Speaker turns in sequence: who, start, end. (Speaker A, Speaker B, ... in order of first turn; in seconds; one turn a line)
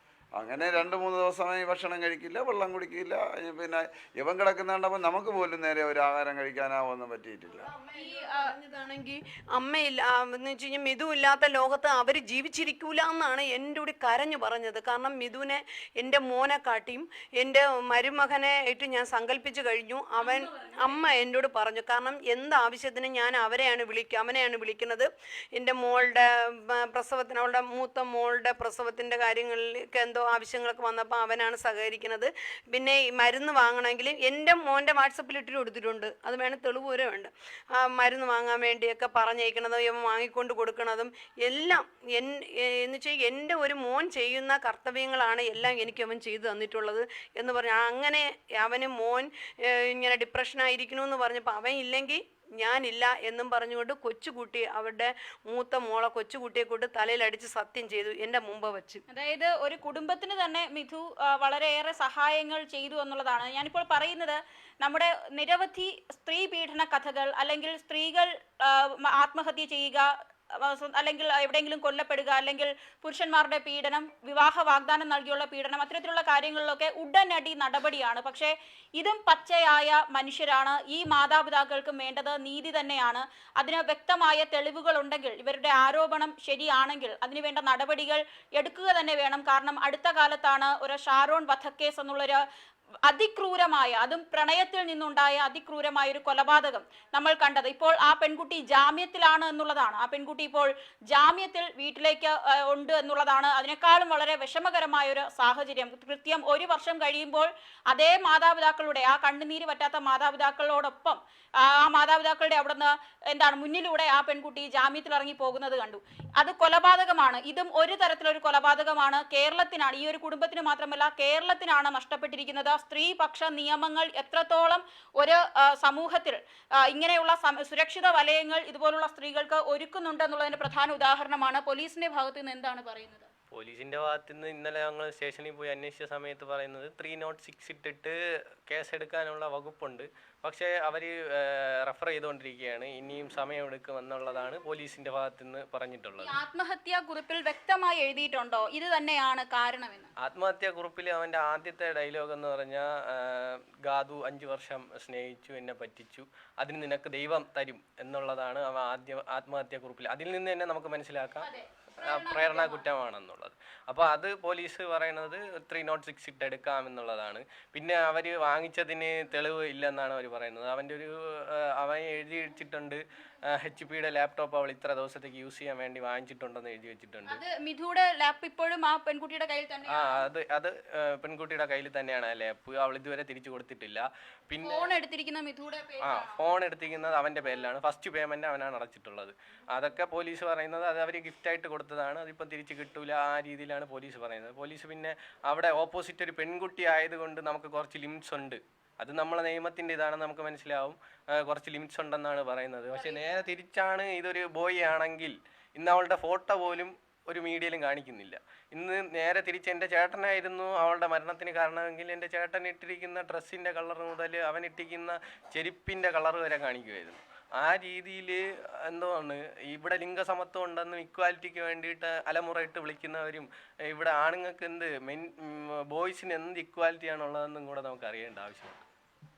Speaker A: 0.4-7.7
Speaker B: 7.5-59.0
Speaker C: 7.9-8.5
Speaker C: 20.2-21.1
Speaker C: 59.1-92.4
Speaker C: 93.1-133.3
Speaker D: 133.5-138.2
Speaker D: 138.7-146.4
Speaker C: 146.2-150.1
Speaker D: 150.2-161.5
Speaker C: 161.4-162.8
Speaker D: 162.0-177.4
Speaker C: 177.3-180.2
Speaker D: 179.9-184.9
Speaker C: 184.6-186.5
Speaker D: 186.0-228.8
Speaker C: 202.9-203.2